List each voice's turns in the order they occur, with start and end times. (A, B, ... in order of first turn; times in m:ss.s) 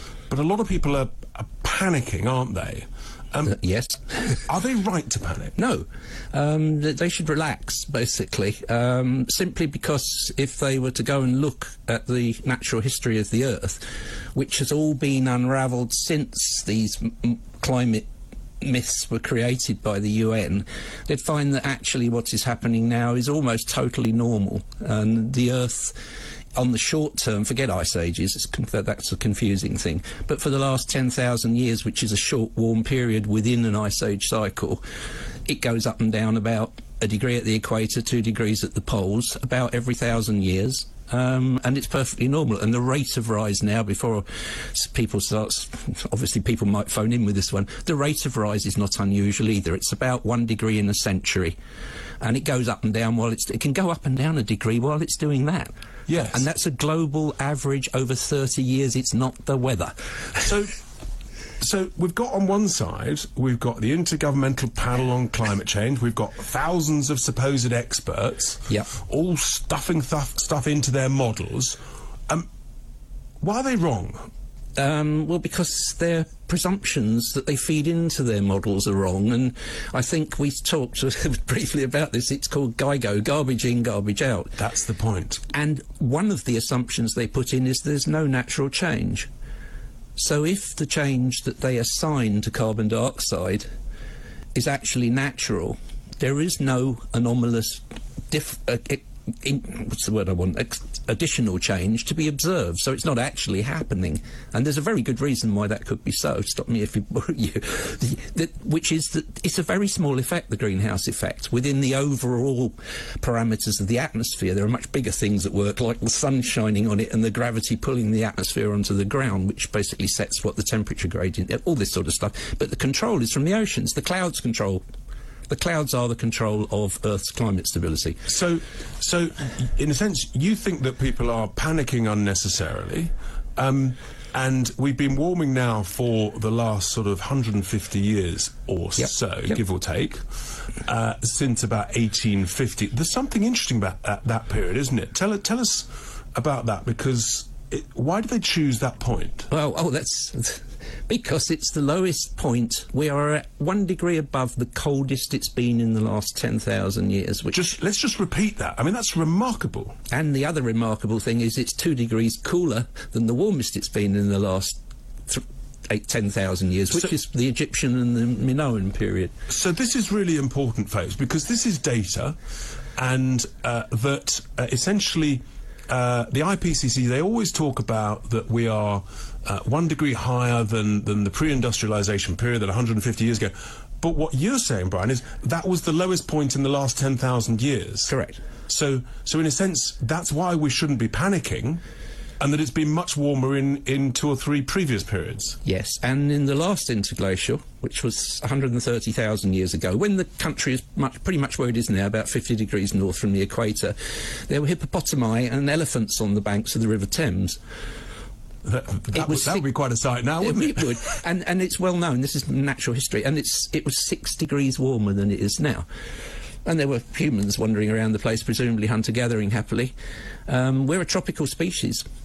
0:00.3-0:03.6 A
0:03.4-0:04.4 B
0:04.5-0:05.5 A
0:05.6-0:18.0 B
0:18.6-0:26.0 B
0:26.5-0:34.8 B
0:35.4-0:51.6 B
0:52.2-1:00.6 B
0:56.1-0:56.4 A
1:00.4-1:00.7 A
1:01.6-1:11.8 A
1:13.4-1:14.3 A
1:14.8-1:24.6 B
1:24.6-1:25.4 A
1:25.5-1:29.3 B
1:30.2-1:33.6 B
1:34.5-2:04.8 B
2:05.5-2:08.2 B
2:08.3-2:29.5 A
2:29.5-2:37.6 B
2:37.5-2:40.0 A
2:40.1-2:49.3 B
2:49.5-2:52.3 A
2:53.0-3:08.1 A
3:08.1-3:08.4 B
3:08.7-3:11.8 A
3:12.4-3:15.6 A
3:15.6-3:27.6 B
3:28.6-3:31.0 A
3:29.1-3:29.7 B
3:30.4-3:35.8 B
3:36.6-3:39.9 B
3:40.5-3:42.0 B